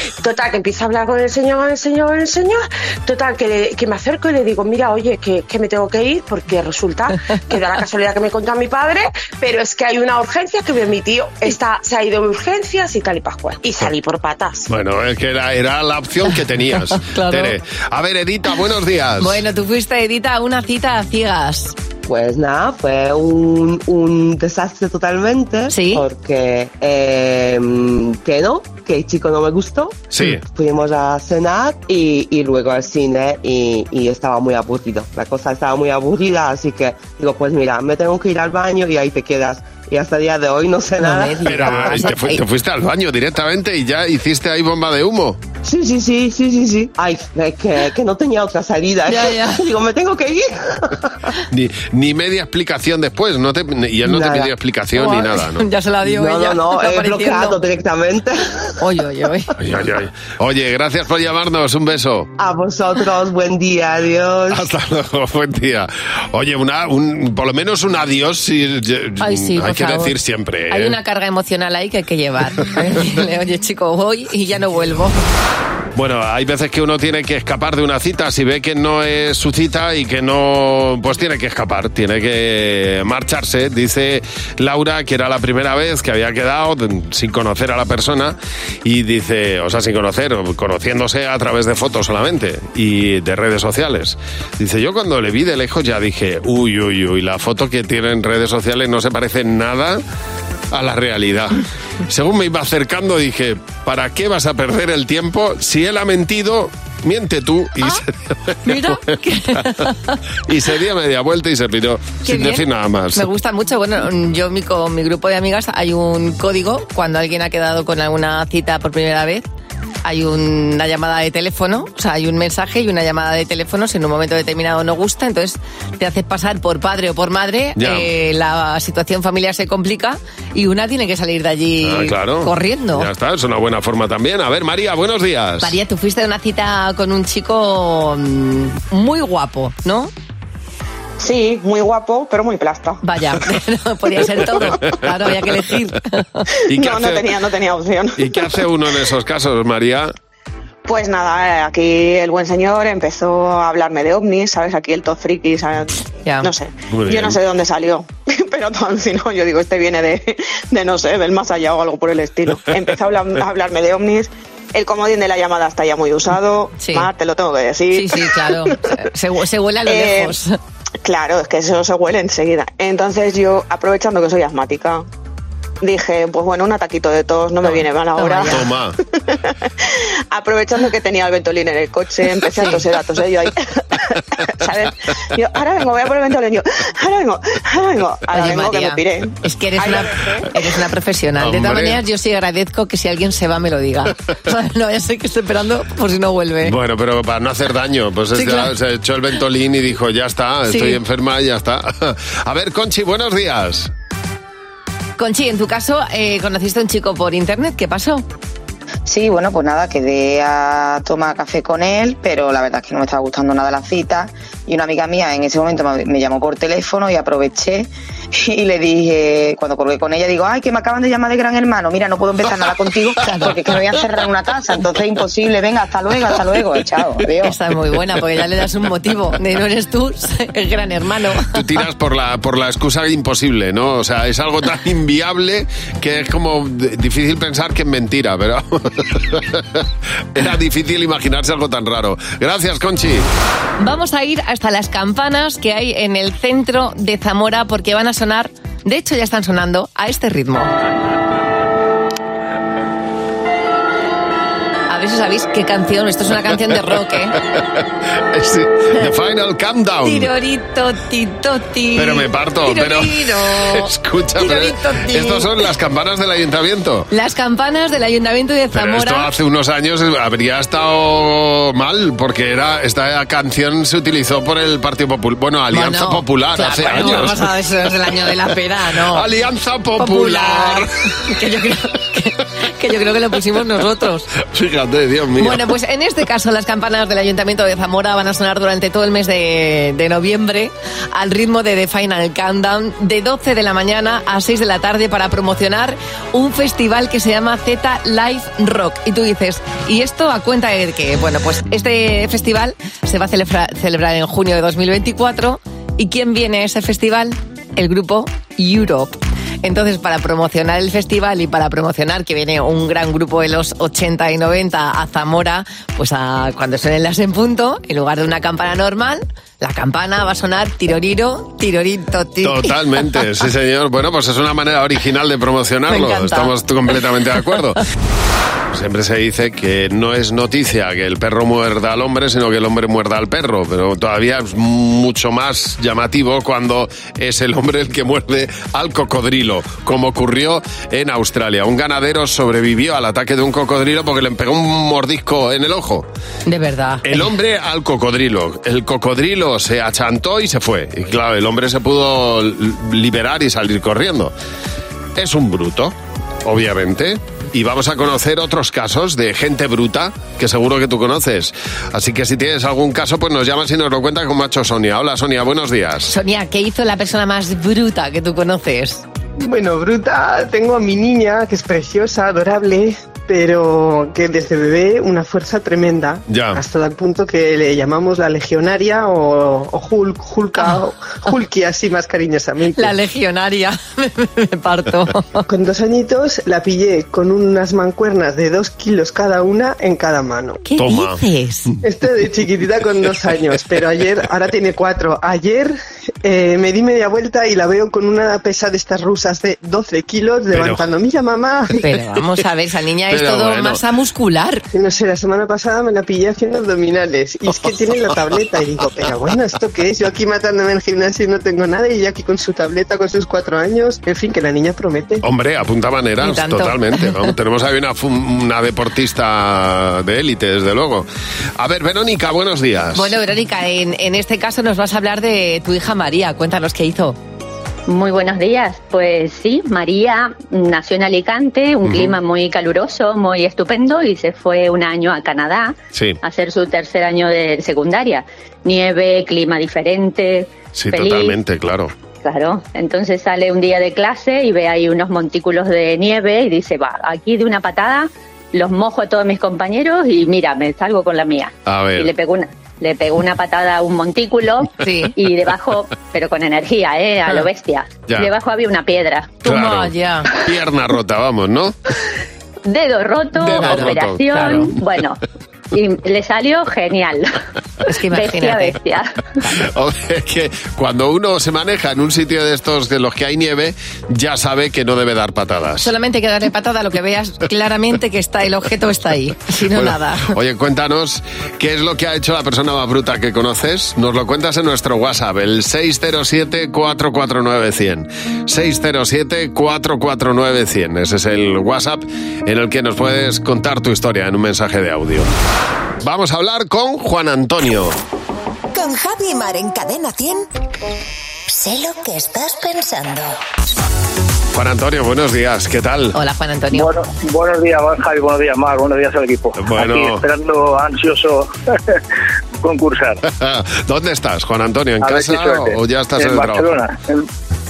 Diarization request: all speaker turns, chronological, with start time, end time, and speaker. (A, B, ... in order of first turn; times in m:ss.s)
0:00.2-0:14.7 A
0:14.7-0:19.4 B
0:16.9-0:17.6 C
0:19.2-0:21.8 C
0:22.0-0:42.0 D
0:25.7-0:26.0 C
0:30.1-0:30.4 B
0:41.0-0:42.4 C
0:41.4-0:45.4 B
0:45.6-0:51.1 D
0:49.1-0:49.6 C
0:51.5-0:55.6 B
0:54.0-0:54.5 D
0:54.9-0:57.6 C
0:56.0-0:58.7 D
0:58.8-0:59.5 C
0:59.6-1:02.3 B
1:02.4-1:04.6 D
1:04.5-1:11.0 B
1:09.2-1:10.1 C
1:10.7-1:15.2 C
1:15.9-1:40.0 B
1:40.7-1:49.0 B
1:48.6-1:50.2 C
1:50.5-1:53.3 B
1:52.2-1:59.4 C
2:00.0-2:13.1 C
2:07.8-2:08.1 B
2:11.8-2:15.8 B
2:15.6-2:20.1 C
2:21.2-2:23.0 E
2:23.0-2:26.4 C
2:26.7-2:27.4 B
2:26.7-2:28.2 E
2:28.2-2:30.1 B
2:30.8-2:48.6 E
2:36.9-2:37.4 B
2:46.8-2:47.1 C
2:47.9-2:50.6 C
2:49.8-2:50.3 E
2:51.0-2:55.1 E
2:55.8-3:10.5 E
2:57.6-2:58.6 C
2:58.5-2:59.0 B
3:08.3-3:16.7 C
3:11.4-3:12.0 B
3:16.6-3:23.9 B
3:18.3-3:18.7 C
3:20.7-3:21.0 C
3:25.2-3:28.2 C
3:29.0-3:47.5 F
3:43.2-3:43.6 C
3:47.4-3:51.5 C
3:51.5-3:59.8 B
4:00.3-4:03.3 B
4:03.8-4:10.7 C
4:14.9-4:17.4 C
4:18.3-4:20.3 B
4:20.0-4:25.5 C
4:22.0-4:27.1 B
4:27.1-4:29.3 C
4:28.7-4:37.5 B
4:35.7-4:39.2 C
4:39.1-4:40.9 B
4:40.0-4:44.3 C
4:44.4-4:45.6 B
4:45.4-5:22.7 C
5:22.4-5:27.8 B
5:25.9-5:26.5 C
5:28.7-5:46.0 B
5:46.5-5:47.3 C
5:47.0-5:54.3 B
5:55.2-6:06.1 B
6:06.1-6:09.0 C
6:09.4-6:23.0 G
6:16.3-6:16.6 B
6:22.7-6:25.4 C
6:25.5-6:30.6 G
6:30.6-6:31.7 C
6:30.8-6:31.2 B
6:31.8-6:41.8 G
6:40.5-6:40.9 B
6:41.7-6:44.6 C
6:43.1-6:43.8 B
6:44.7-6:55.2 G
6:55.2-7:01.1 B
6:56.2-6:57.3 C
7:01.6-7:03.1 B
7:02.9-7:07.2 C
7:07.9-7:21.4 H
7:11.8-7:12.2 B
7:20.7-7:21.9 B
7:22.2-7:39.3 H
7:31.6-7:32.1 B
7:34.8-7:35.1 C
7:39.4-7:40.3 C
7:39.4-7:41.8 B
7:42.6-7:45.2 H
7:43.4-7:44.8 B
7:43.4-7:44.7 C
7:45.7-7:47.3 H
7:47.8-7:48.8 C
7:48.1-7:49.1 H
7:49.5-7:55.9 B
7:55.8-8:00.3 C
7:59.7-8:15.3 B
8:16.0-8:18.0 B
8:18.7-8:20.5 I
8:21.5-8:23.4 I
8:24.5-8:26.2 B
8:26.1-8:26.9 C
8:26.7-8:32.0 J
8:29.6-8:30.2 B
8:32.6-8:33.2 J
8:33.2-8:36.7 B
8:35.0-8:37.3 J